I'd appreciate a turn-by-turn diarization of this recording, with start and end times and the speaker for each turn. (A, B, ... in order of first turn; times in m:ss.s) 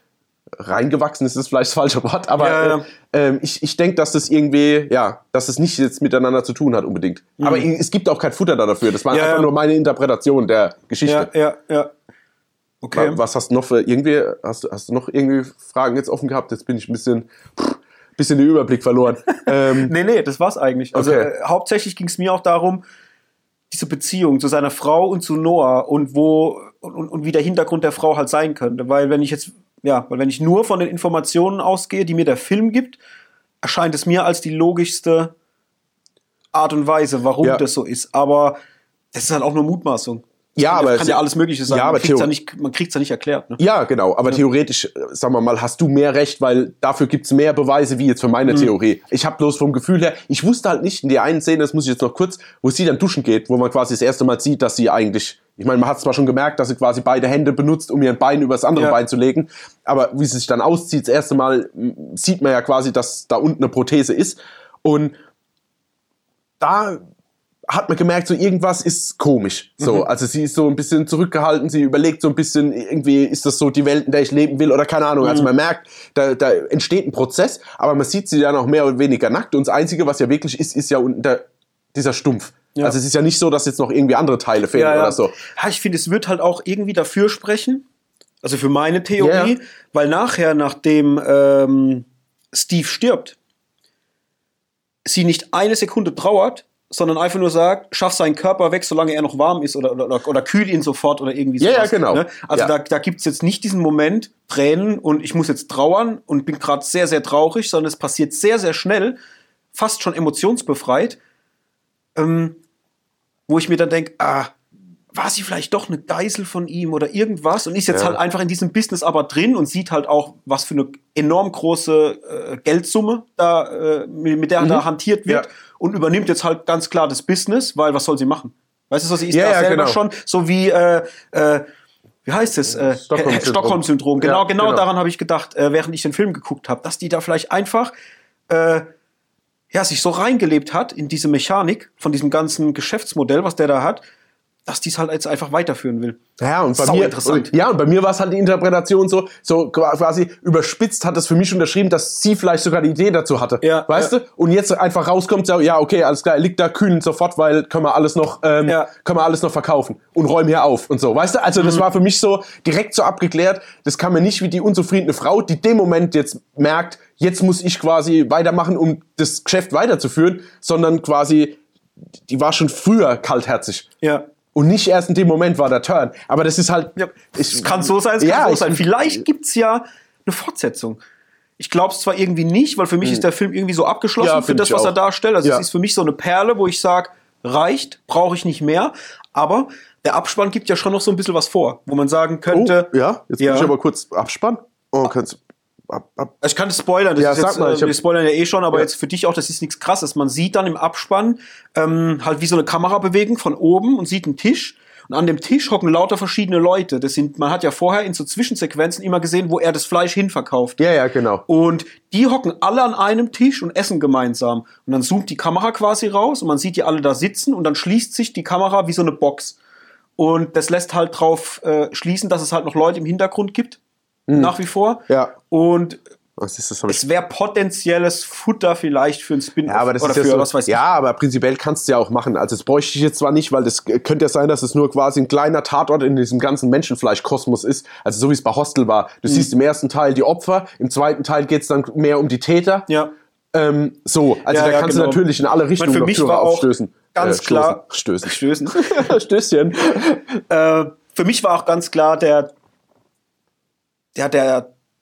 0:00.6-0:11.3 A
0:02.4-0:02.9 B
0:07.4-0:07.7 B
0:09.1-0:09.5 B
0:11.0-0:11.9 B
0:12.8-0:13.2 B
0:12.9-0:19.9 A
0:19.4-0:22.8 B
0:20.9-0:21.3 A
0:23.7-0:33.0 B
0:33.6-0:35.3 B
0:36.5-0:38.6 B
0:39.1-0:43.6 B
0:40.6-0:42.3 A
0:43.6-1:05.2 A
0:48.4-0:48.7 B
1:06.6-1:07.0 A
1:07.7-1:25.3 A
1:09.8-1:10.1 B
1:15.2-1:15.5 B
1:24.7-1:27.8 B
1:28.4-1:33.4 B
1:29.2-1:29.6 A
1:35.0-1:49.2 B
1:41.6-1:42.7 A
1:49.7-1:51.2 B
1:52.2-1:52.6 B
1:53.5-1:54.5 B
1:55.1-2:11.6 B
1:57.9-1:58.2 A
2:04.6-2:05.4 A
2:09.3-2:10.0 A
2:12.2-2:17.9 B
2:12.9-2:14.8 A
2:18.5-2:18.9 B
2:19.7-2:24.0 B
2:24.6-2:26.2 B
2:26.4-2:51.6 A
2:26.8-2:27.5 B
2:33.6-2:34.1 B
2:52.3-2:53.9 A
2:54.0-2:54.3 B
2:54.5-2:59.2 A
2:57.0-3:01.0 B
3:01.6-3:13.7 B
3:04.2-3:05.6 A
3:12.5-3:16.3 A
3:16.4-3:30.8 B
3:17.2-3:17.9 A
3:30.8-3:31.4 A
3:31.5-3:39.6 B
3:40.2-3:43.8 B
3:44.3-3:44.5 A
3:44.3-3:46.0 B
3:46.4-3:47.0 A
3:46.9-3:50.8 B
3:49.7-4:02.9 A
4:02.9-4:03.1 B
4:03.5-4:10.4 A
4:04.5-4:05.2 B
4:05.8-4:09.1 B
4:10.5-4:12.5 B
4:14.2-4:14.7 B